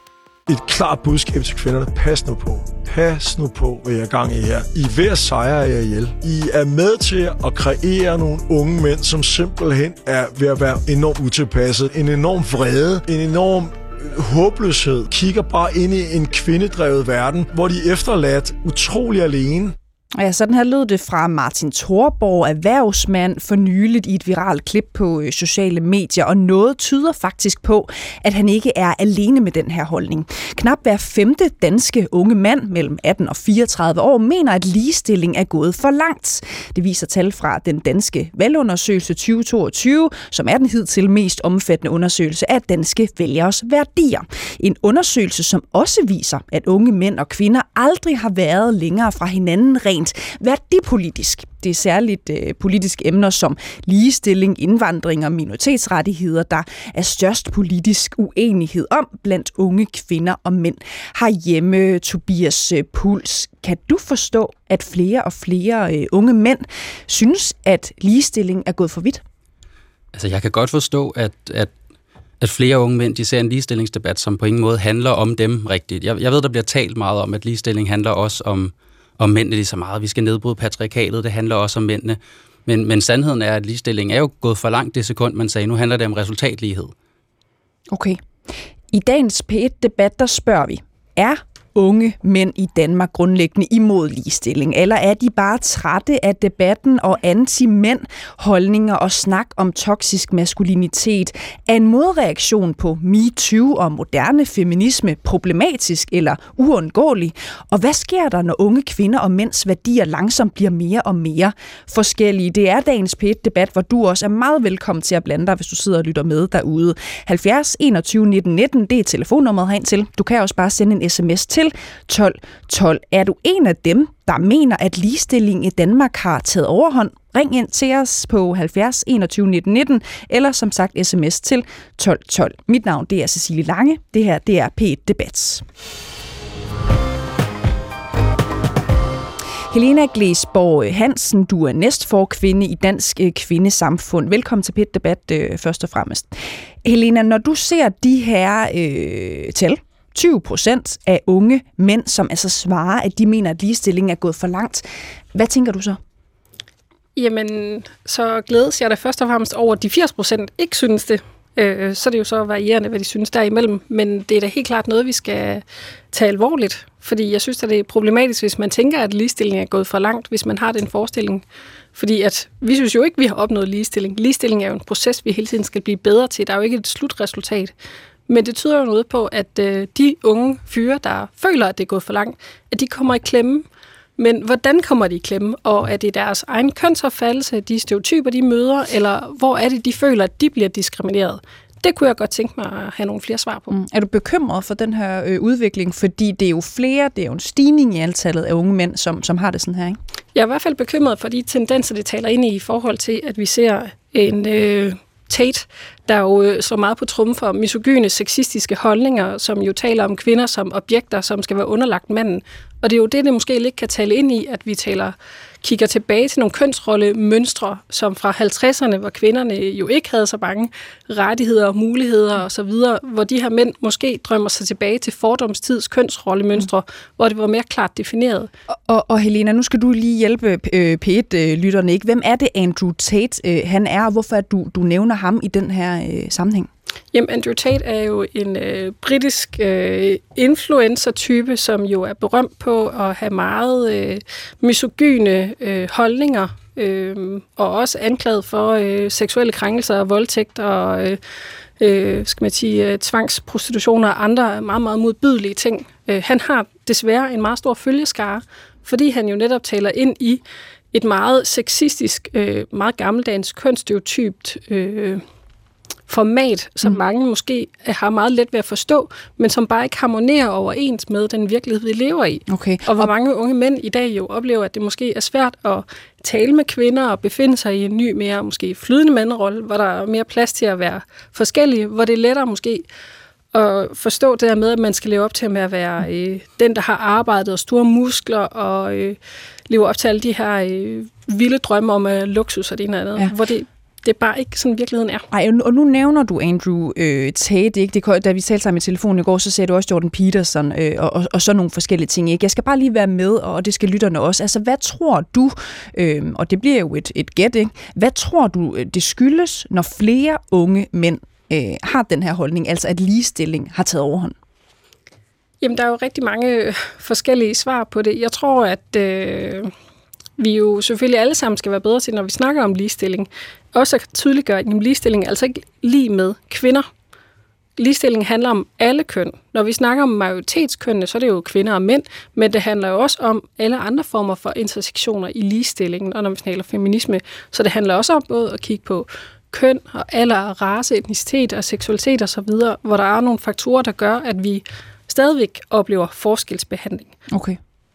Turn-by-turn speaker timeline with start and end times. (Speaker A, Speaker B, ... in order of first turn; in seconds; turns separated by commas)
Speaker A: 0.5-19.8, Speaker B: 20.1-69.2, Speaker C: 70.1-71.7, Speaker C: 72.4-86.9, Speaker B: 87.9-88.2, Speaker B: 88.9-135.7, Speaker B: 139.7-156.0, Speaker D: 157.2-177.7, Speaker D: 178.3-183.7, Speaker D: 184.2-193.7, Speaker B: 193.7-200.0, Speaker D: 200.3-228.5, Speaker B: 228.8-236.7, Speaker D: 237.1-251.2, Speaker D: 251.8-260.4, Speaker D: 260.9-265.2, Speaker D: 266.1-282.9, Speaker B: 272.5-273.1, Speaker D: 283.5-289.2, Speaker D: 289.7-295.3, Speaker B: 295.3-314.4, Speaker D: 315.6-319.7, Speaker D: 320.4-326.9, Speaker D: 327.8-347.1, Speaker B: 347.3-347.6